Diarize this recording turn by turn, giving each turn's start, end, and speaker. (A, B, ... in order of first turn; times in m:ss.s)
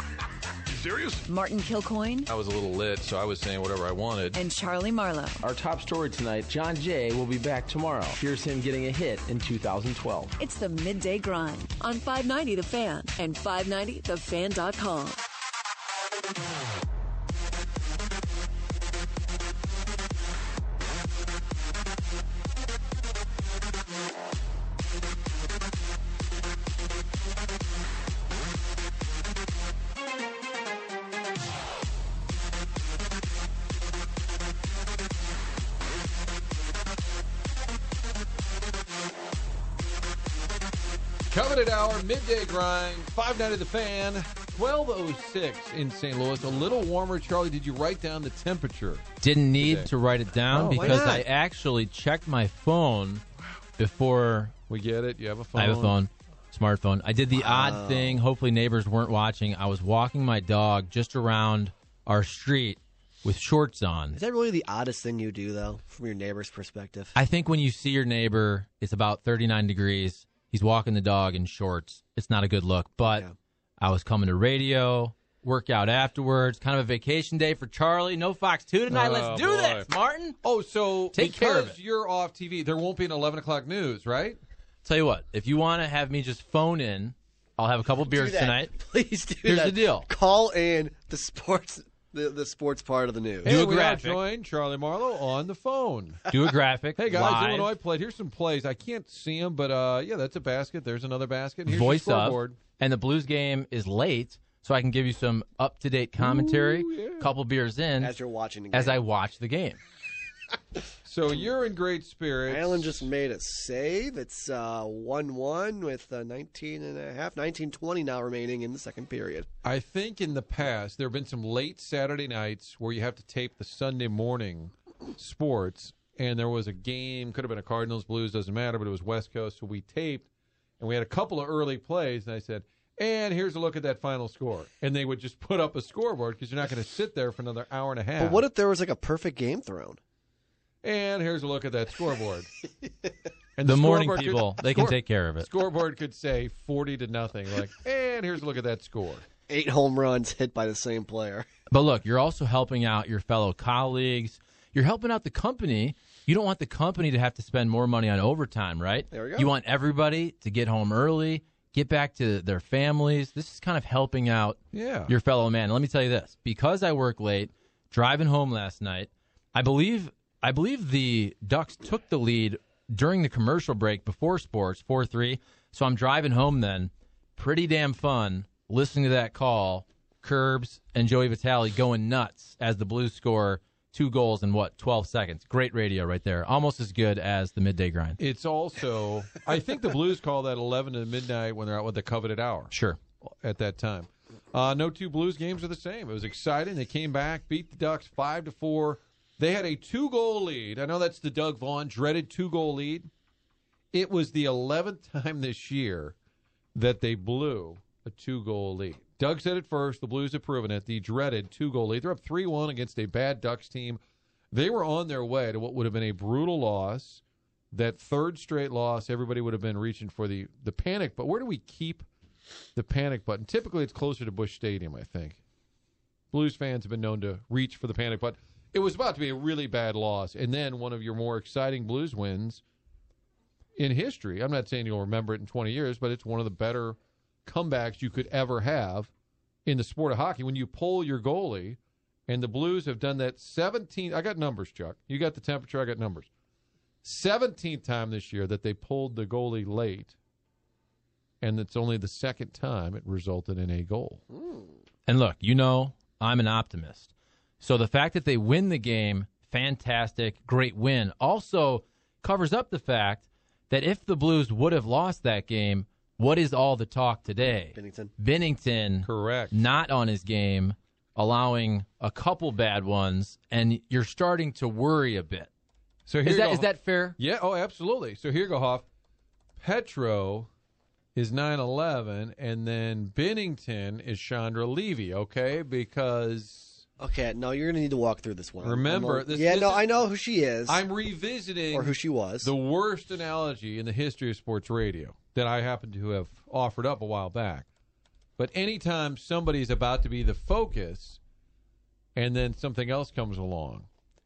0:01.2-0:02.3 A
0:02.4-0:04.3 B
0:04.3-0:05.4 A
0:05.4-0:10.4 C
0:10.4-0:15.2 A
0:41.3-0:49.0 B
0:49.2-0:53.2 D
0:49.6-0:49.9 B
0:50.5-0:51.2 E
0:50.6-0:51.1 B
0:53.8-0:54.5 D
0:54.7-0:55.9 B
0:55.6-1:04.2 D
0:57.3-0:58.2 E
1:04.1-1:07.1 E
1:07.1-1:13.3 D
1:13.8-1:20.4 D
1:18.9-1:19.9 B
1:20.4-1:24.4 B
1:21.1-1:21.8 D
1:24.8-1:28.7 D
1:28.1-1:33.5 E
1:29.4-1:30.1 D
1:33.4-1:34.2 D
1:33.4-1:36.3 B
1:36.3-1:37.7 D
1:37.0-1:42.6 B
1:41.7-1:48.1 D
1:46.2-1:47.3 B
1:48.0-1:49.0 E
1:48.7-1:49.8 D
1:51.0-1:53.1 B
1:52.4-1:59.5 E
1:59.6-2:10.3 B
2:10.8-2:18.4 B
2:18.2-2:20.0 E
2:20.8-2:22.5 B
2:23.6-2:29.2 B
2:23.7-2:25.5 D
2:29.5-2:31.5 E
2:31.7-3:08.2 D
2:39.1-2:39.5 E
2:44.7-2:45.1 B
3:08.2-3:23.1 B
3:12.7-3:13.0 D
3:23.9-3:26.1 B
3:26.8-3:34.0 B
3:34.5-3:42.1 B
3:42.8-3:45.4 B
3:46.3-3:52.6 B
3:53.8-3:59.1 B
3:59.6-4:06.3 B
4:07.0-4:10.1 B
4:11.4-4:14.2 B
4:14.3-4:14.7 E
4:15.1-4:35.5 D
4:27.7-4:28.1 E
4:29.0-4:29.6 B
4:36.1-4:38.8 B
4:36.2-4:37.2 D
4:39.6-4:40.5 B
4:41.1-4:46.8 B
4:47.0-4:50.8 E
4:48.6-4:50.0 B
4:50.6-4:57.6 B
4:51.7-4:52.5 E
4:58.4-5:01.2 B
5:02.2-5:03.9 B